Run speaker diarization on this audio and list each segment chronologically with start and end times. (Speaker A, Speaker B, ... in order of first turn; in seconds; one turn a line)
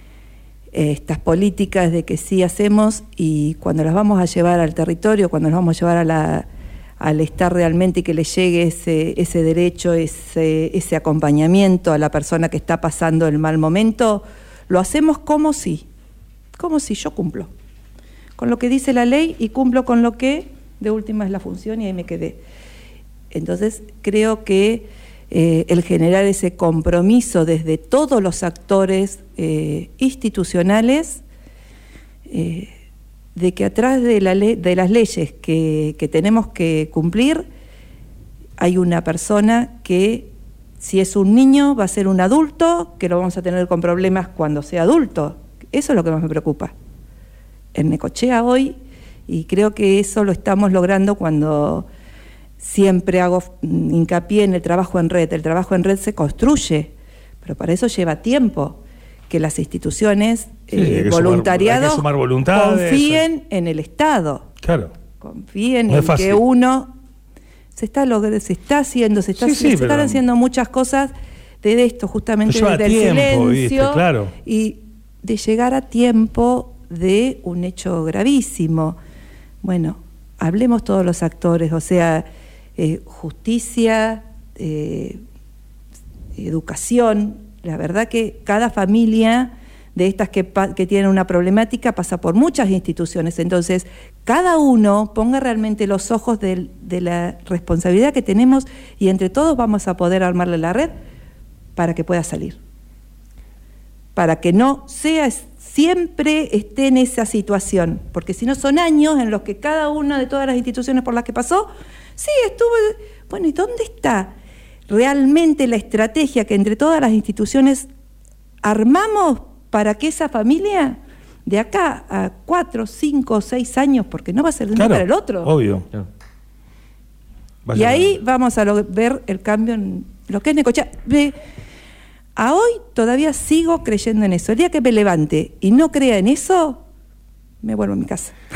Speaker A: 0.7-6.5
Speaker A: 7.0-15.9
Speaker A: 16.6-17.5
Speaker A: 18.4-22.4
Speaker A: 23.3-31.2
Speaker A: 32.3-32.7
Speaker A: 33.4-37.5
Speaker A: 38.6-46.7
Speaker A: 47.7-48.8
Speaker A: 49.3-51.9
Speaker A: 52.6-56.9
Speaker A: 57.4-58.8
Speaker A: 59.3-64.5
Speaker B: 60.7-63.2
Speaker B: 64.6-64.9
Speaker A: 65.2-66.9
Speaker B: 65.9-66.4
Speaker A: 67.7-71.1
Speaker B: 69.4-70.2
Speaker A: 71.6-79.0
Speaker B: 72.5-74.3
Speaker A: 79.6-82.3
Speaker A: 82.8-85.2
Speaker A: 86.4-100.9
Speaker A: 101.8-102.6
Speaker A: 104.2-114.3
Speaker A: 114.9-117.9
Speaker A: 118.6-125.5
Speaker B: 124.8-125.9
Speaker B: 127.7-128.1
Speaker A: 127.8-131.3
Speaker A: 132.4-136.8
Speaker A: 137.6-138.4